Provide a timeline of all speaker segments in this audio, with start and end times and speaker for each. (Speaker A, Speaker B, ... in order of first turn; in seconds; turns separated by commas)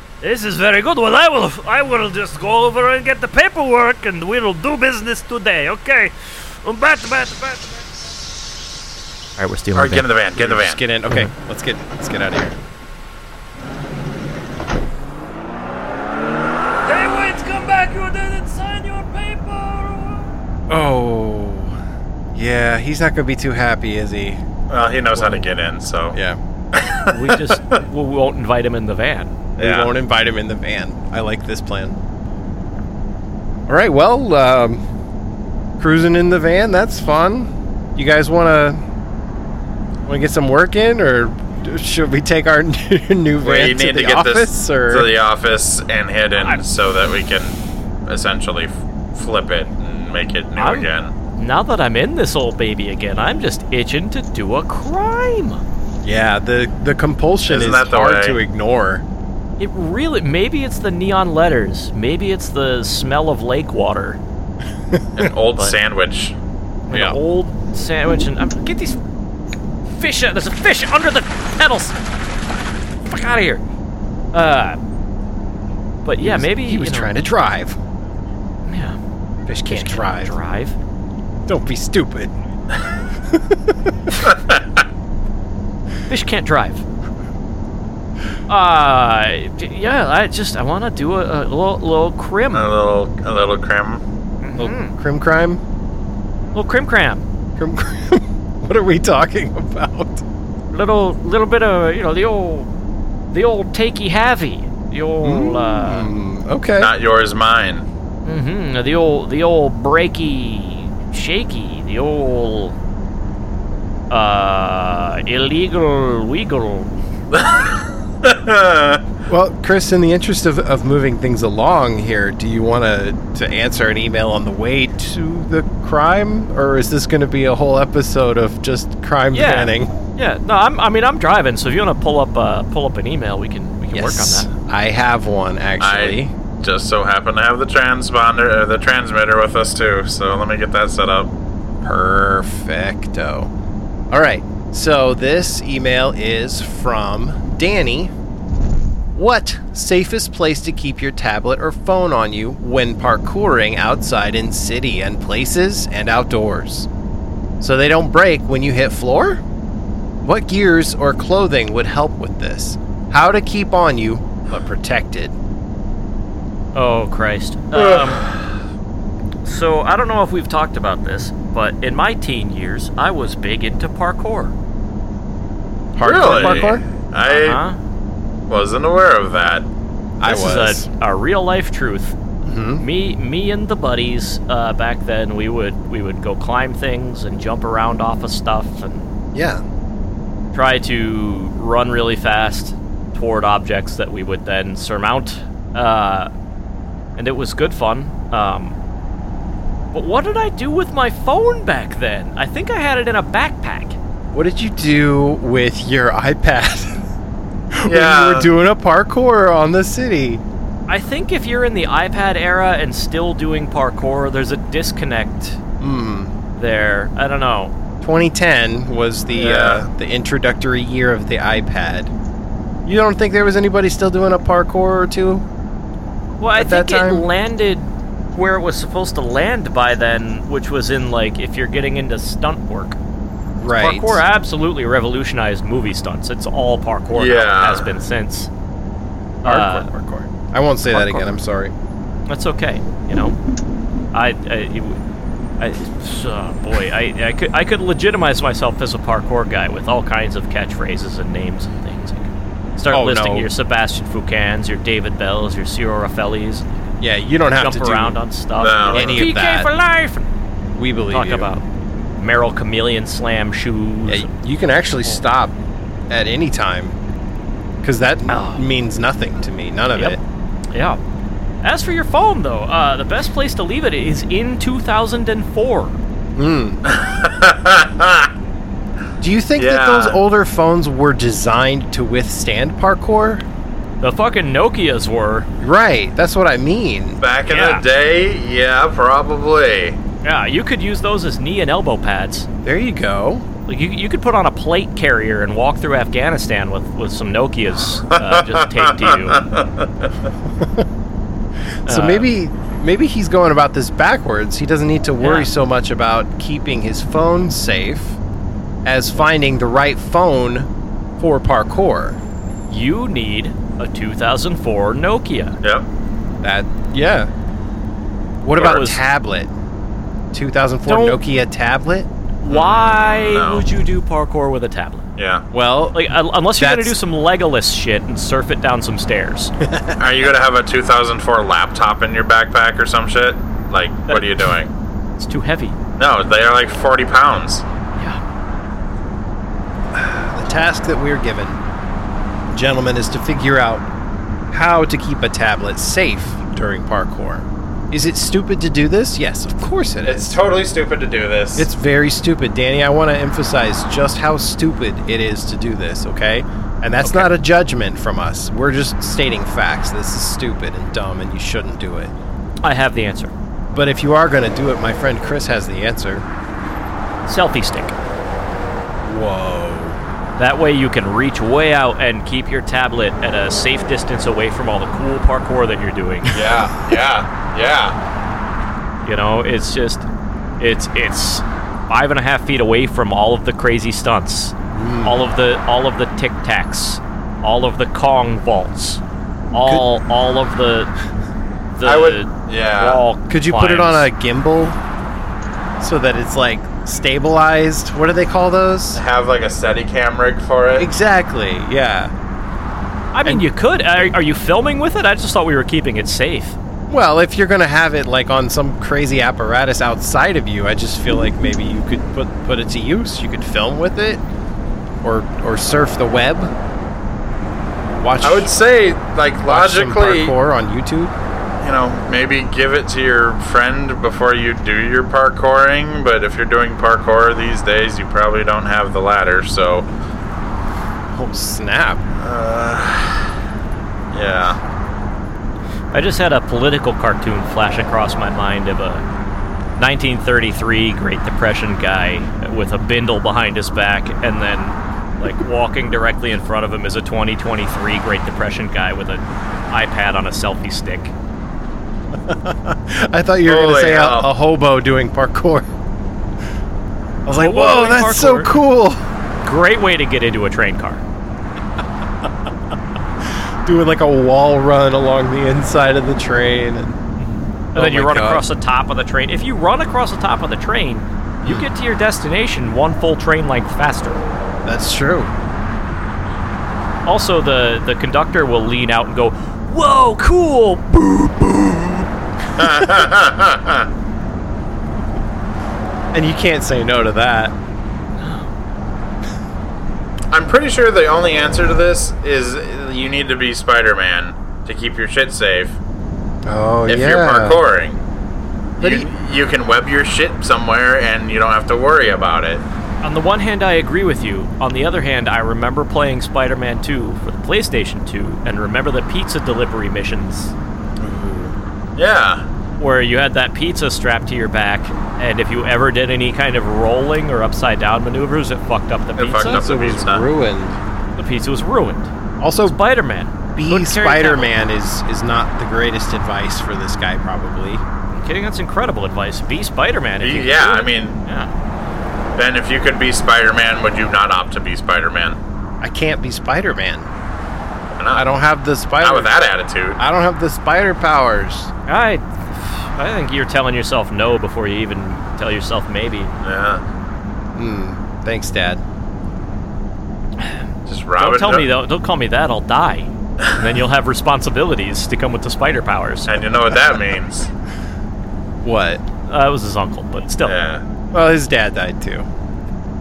Speaker A: 0.2-7.8, Speaker B: 9.4-10.1, Speaker C: 9.7-10.8, Speaker D: 10.3-12.6, Speaker A: 16.8-20.3, Speaker D: 20.7-21.8, Speaker D: 22.3-24.4, Speaker C: 24.7-26.2, Speaker B: 25.1-25.4, Speaker D: 26.1-26.4, Speaker C: 26.7-27.8, Speaker B: 27.1-29.4, Speaker D: 29.6-32.0, Speaker C: 29.6-29.9, Speaker D: 33.7-34.8, Speaker D: 35.8-38.8, Speaker D: 40.1-45.1, Speaker C: 43.4-51.1, Speaker B: 50.6-55.6, Speaker D: 56.0-59.0, Speaker C: 57.5-58.4, Speaker B: 59.6-64.2, Speaker D: 64.9-65.2, Speaker C: 65.2-66.3, Speaker B: 66.9-69.0, Speaker D: 66.9-67.2, Speaker B: 69.9-72.0, Speaker B: 73.1-73.6, Speaker B: 74.3-74.8, Speaker B: 76.0-77.2, Speaker D: 76.2-77.8, Speaker B: 78.7-79.0, Speaker D: 79.5-80.3, Speaker B: 79.7-80.8, Speaker D: 81.5-82.3, Speaker D: 83.3-83.7, Speaker C: 84.2-84.6, Speaker B: 86.1-86.8, Speaker B: 88.5-92.7, Speaker C: 92.5-94.0, Speaker B: 94.4-94.9, Speaker D: 94.6-95.6, Speaker B: 96.5-97.2, Speaker D: 97.6-100.2, Speaker B: 100.7-102.7, Speaker B: 103.3-106.1, Speaker D: 105.2-107.0, Speaker C: 106.8-107.9, Speaker B: 108.2-112.8, Speaker B: 114.1-116.9, Speaker C: 117.3-119.0, Speaker D: 119.3-129.9, Speaker B: 129.3-134.5, Speaker D: 133.9-136.3, Speaker C: 135.8-141.3, Speaker D: 141.8-143.5, Speaker D: 144.1-148.1, Speaker D: 149.2-156.9, Speaker D: 157.6-159.4, Speaker D: 160.2-165.3, Speaker B: 166.8-168.3, Speaker C: 167.8-168.4, Speaker B: 169.4-174.6, Speaker D: 175.9-176.8, Speaker C: 176.0-177.6, Speaker B: 176.3-176.7, Speaker B: 177.2-177.8, Speaker C: 178.5-179.7, Speaker D: 180.2-180.9, Speaker B: 180.2-182.2, Speaker D: 182.4-182.8, Speaker B: 182.8-189.1, Speaker D: 189.3-189.6, Speaker B: 190.5-196.3, Speaker B: 197.2-198.8, Speaker B: 199.9-204.0, Speaker D: 204.3-207.0, Speaker D: 207.7-210.4, Speaker C: 207.8-208.5, Speaker B: 210.9-215.6, Speaker D: 215.8-216.3, Speaker B: 216.6-217.7, Speaker D: 218.0-222.1, Speaker C: 219.4-219.9, Speaker D: 222.9-225.4, Speaker B: 226.4-233.0, Speaker D: 226.6-227.3, Speaker D: 233.6-234.2, Speaker B: 233.7-238.5, Speaker C: 237.2-238.0, Speaker B: 239.4-239.9, Speaker D: 239.4-241.7, Speaker B: 240.9-241.3, Speaker B: 242.3-243.4, Speaker B: 244.1-245.0, Speaker B: 245.6-256.8, Speaker D: 252.9-253.5, Speaker D: 257.0-258.2, Speaker B: 257.6-260.3, Speaker C: 258.6-259.3, Speaker D: 258.9-259.7, Speaker D: 260.8-261.5, Speaker B: 261.1-261.6, Speaker B: 262.2-264.3, Speaker D: 264.1-265.6, Speaker D: 266.1-267.0, Speaker D: 267.8-270.2, Speaker B: 268.3-268.7, Speaker B: 270.7-271.0, Speaker B: 271.6-276.0, Speaker D: 276.4-276.8, Speaker C: 276.9-278.3, Speaker D: 279.2-283.4, Speaker C: 279.6-280.2, Speaker B: 284.0-285.5, Speaker D: 285.6-287.2, Speaker C: 287.2-290.0, Speaker B: 287.5-287.9, Speaker B: 290.2-292.5, Speaker D: 292.6-293.4, Speaker B: 293.7-299.4, Speaker C: 298.1-300.1, Speaker D: 300.6-300.9, Speaker B: 301.9-302.3, Speaker D: 301.9-308.2, Speaker B: 305.2-305.5, Speaker D: 308.9-312.2, Speaker B: 312.7-315.6, Speaker C: 315.6-315.9, Speaker D: 316.4-317.3, Speaker D: 318.4-319.5, Speaker B: 318.5-319.0, Speaker D: 320.3-322.1, Speaker B: 320.9-321.2, Speaker B: 322.4-325.1, Speaker C: 322.5-323.7, Speaker C: 325.2-325.4, Speaker D: 325.5-327.0, Speaker B: 325.9-329.5, Speaker D: 329.6-330.0, Speaker C: 330.0-334.7, Speaker B: 335.2-335.8, Speaker C: 336.0-337.6, Speaker D: 339.9-341.6, Speaker D: 342.5-343.9, Speaker D: 344.5-350.4, Speaker C: 350.0-351.7, Speaker D: 351.6-362.1, Speaker B: 357.0-357.4, Speaker B: 362.6-363.3, Speaker D: 363.7-366.2, Speaker B: 367.3-367.9, Speaker D: 369.0-370.0, Speaker B: 370.4-376.4, Speaker C: 376.3-378.0, Speaker B: 379.1-380.1, Speaker B: 380.6-389.0, Speaker D: 384.7-385.2, Speaker B: 389.5-390.9, Speaker D: 389.6-389.8, Speaker B: 391.8-394.1, Speaker C: 391.8-393.0, Speaker D: 393.3-394.8, Speaker D: 395.8-399.0, Speaker C: 398.9-400.9, Speaker D: 400.8-402.1, Speaker B: 403.1-406.6, Speaker D: 406.9-414.2, Speaker D: 415.0-416.5, Speaker D: 418.0-418.5, Speaker C: 418.2-420.3, Speaker D: 419.4-421.1, Speaker C: 421.6-429.9, Speaker D: 431.1-432.0, Speaker C: 432.2-433.3, Speaker C: 434.1-434.6, Speaker B: 435.9-439.0, Speaker B: 439.8-451.1, Speaker D: 452.1-455.7, Speaker C: 453.5-454.3, Speaker D: 457.2-459.0, Speaker B: 457.3-458.5, Speaker B: 459.4-461.0, Speaker D: 463.6-467.0, Speaker B: 467.2-474.2, Speaker D: 467.8-468.4, Speaker D: 474.6-475.3, Speaker B: 477.1-482.1, Speaker C: 482.6-483.9, Speaker D: 486.1-487.6, Speaker B: 488.2-488.5, Speaker C: 490.3-495.8, Speaker D: 496.4-497.6, Speaker C: 496.9-498.0, Speaker C: 498.8-502.6, Speaker D: 498.8-499.1, Speaker B: 503.0-510.5, Speaker C: 511.0-512.4, Speaker B: 512.8-519.6, Speaker C: 519.2-520.3, Speaker D: 519.5-520.8, Speaker B: 521.2-522.1, Speaker D: 522.4-522.8, Speaker B: 522.6-524.5, Speaker D: 523.5-527.8, Speaker B: 528.1-531.5, Speaker C: 530.2-531.2, Speaker C: 532.4-535.4, Speaker D: 535.8-537.1, Speaker C: 537.9-538.2, Speaker D: 538.1-539.3, Speaker C: 539.0-540.0, Speaker D: 540.0-541.7, Speaker B: 541.9-546.3, Speaker C: 546.4-546.8, Speaker D: 547.5-548.8, Speaker C: 550.9-551.7, Speaker B: 551.2-556.4, Speaker C: 556.3-557.5, Speaker D: 558.6-559.0, Speaker B: 559.3-560.6, Speaker C: 560.5-560.8, Speaker D: 561.1-562.3